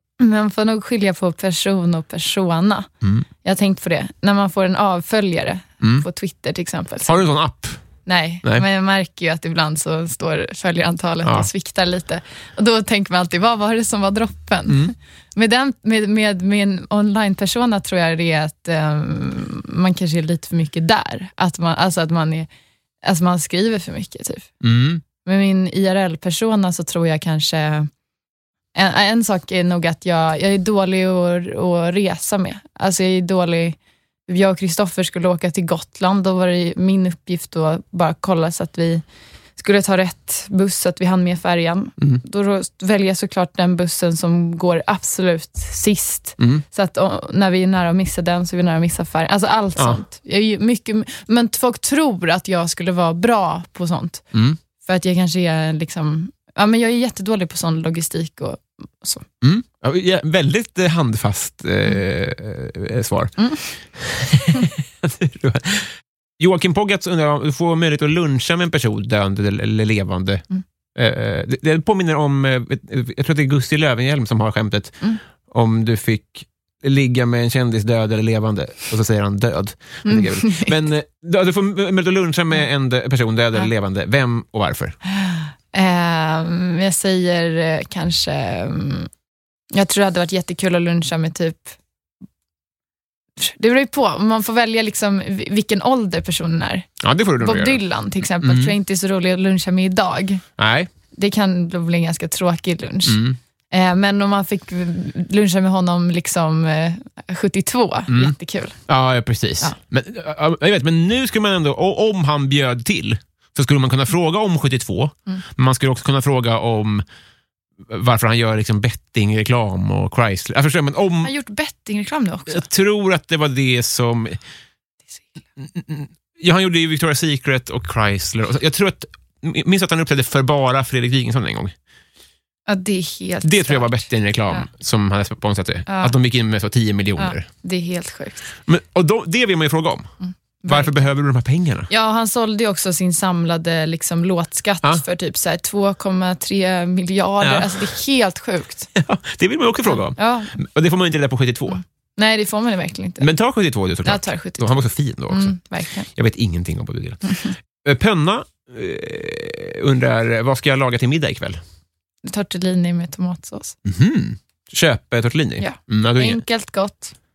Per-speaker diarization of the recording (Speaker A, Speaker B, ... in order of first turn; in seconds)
Speaker A: 0.2-2.9, 3.4-7.2, 8.0-22.5, 23.0-24.5, 25.1-27.9, 28.7-39.0, 39.6-54.2, 54.8-59.2, 80.0-80.8, 85.1-89.1, 89.7-91.8, 93.4-100.4, 101.1-108.8, 121.2-122.7, 132.7-134.7, 135.9-136.1, 137.2-138.4, 140.2-141.1, 141.9-148.9, 149.8-150.5, 151.7-153.3, 154.0-156.1, 162.2-163.8, 165.6-167.1
Speaker B: 5.8-6.0, 7.0-7.8, 11.2-11.5, 14.7-14.9, 24.6-25.0, 46.4-46.6, 49.8-50.0, 54.3-54.6, 59.4-70.4, 70.9-85.0, 97.0-97.8, 98.4-98.7, 100.6-100.9, 103.0-103.4, 108.1-108.3, 108.9-117.0, 117.9-121.3, 122.5-124.4, 125.6-131.7, 133.4-137.5, 138.7-140.1, 140.6-141.9, 147.4-147.8, 148.9-151.8, 153.2-155.6, 156.1-161.6, 163.8-166.4